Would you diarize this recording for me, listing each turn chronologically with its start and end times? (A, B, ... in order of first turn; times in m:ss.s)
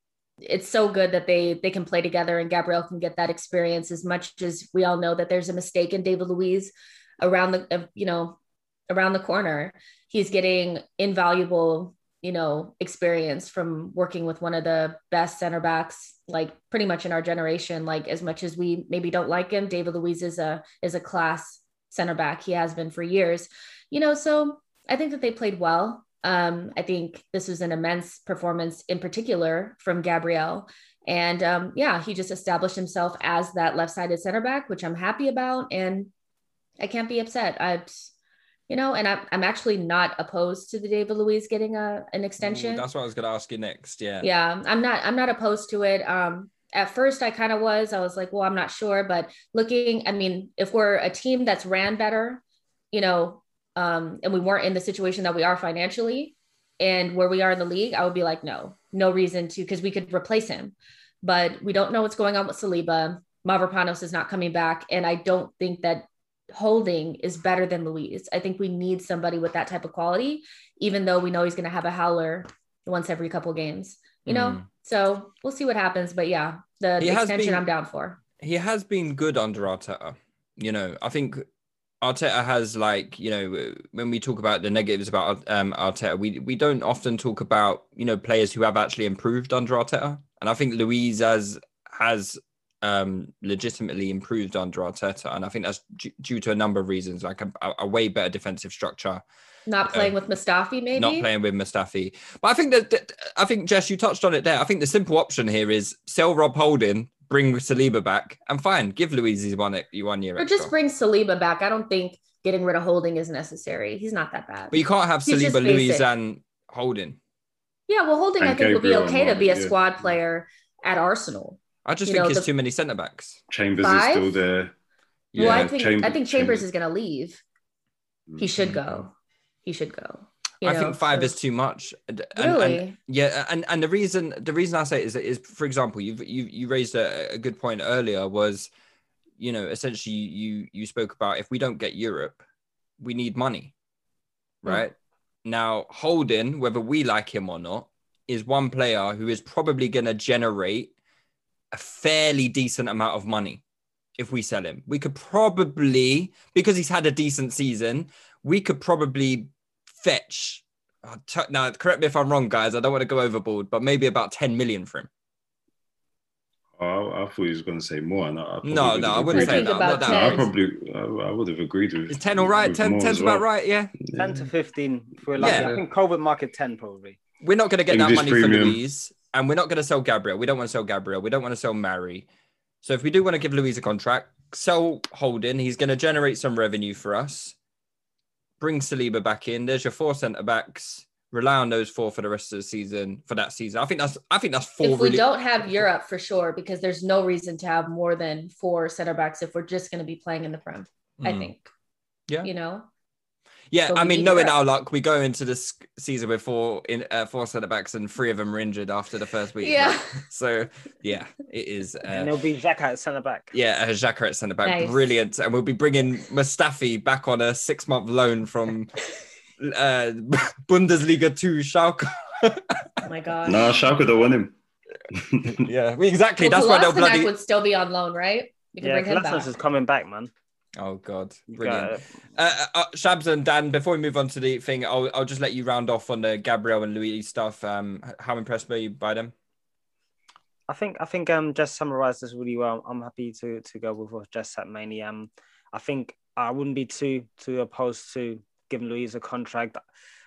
0:00.4-0:08.4 A
0:08.9-0:36.1 A
0:36.8-0:38.0 A
0:38.7-0:42.8 A
0:42.4-0:44.3 B
0:44.2-1:18.2 A
1:14.2-1:14.6 B
1:17.0-1:17.6 B
1:18.4-1:21.4 B
1:22.0-1:39.2 B
1:39.7-1:41.3 A
1:39.9-1:40.1 B
1:41.0-1:50.7 B
1:50.4-1:56.1 A
1:54.7-1:57.2 B
1:57.9-2:02.5 A
1:58.4-1:59.8 C
2:01.8-2:03.4 B
2:03.5-2:04.7 C
2:03.8-2:04.4 A
2:05.3-2:05.7 B
2:05.3-2:06.6 C
2:05.4-2:07.4 A
2:08.4-2:09.1 A
2:08.6-2:09.0 B
2:09.6-2:11.3 A
2:10.6-2:18.7 B
2:12.4-2:12.9 A
2:19.4-2:22.4 B
2:23.0-2:23.7 B
2:24.6-2:24.9 B
2:25.4-2:30.9 B
2:31.7-2:33.6 B
2:34.2-2:45.1 B
2:46.8-2:53.4 C
2:48.6-2:50.5 B
2:49.3-2:50.4 A
2:52.1-2:54.0 B
2:54.0-2:54.5 C
2:54.2-2:57.2 D
2:55.4-2:55.8 C
2:55.4-2:55.7 B
2:57.4-3:02.2 B
2:57.9-2:58.8 C
3:02.8-3:07.5 B
3:08.6-3:15.8 B
3:14.8-3:21.7 A
3:21.2-3:21.5 B
3:22.4-3:22.9 A
3:23.7-3:32.4 B
3:23.9-3:24.6 A
3:29.6-3:30.2 A
3:32.1-3:33.5 D
3:33.5-3:39.0 B
3:34.6-3:34.9 A
3:39.6-3:42.9 B
3:43.0-3:43.7 A
3:43.4-3:44.5 C
3:45.1-3:45.6 C
3:45.5-3:47.3 B
3:46.4-3:49.5 A
3:48.8-3:50.3 D
3:50.8-3:59.3 B
3:51.5-3:52.0 D
4:00.7-4:09.8 D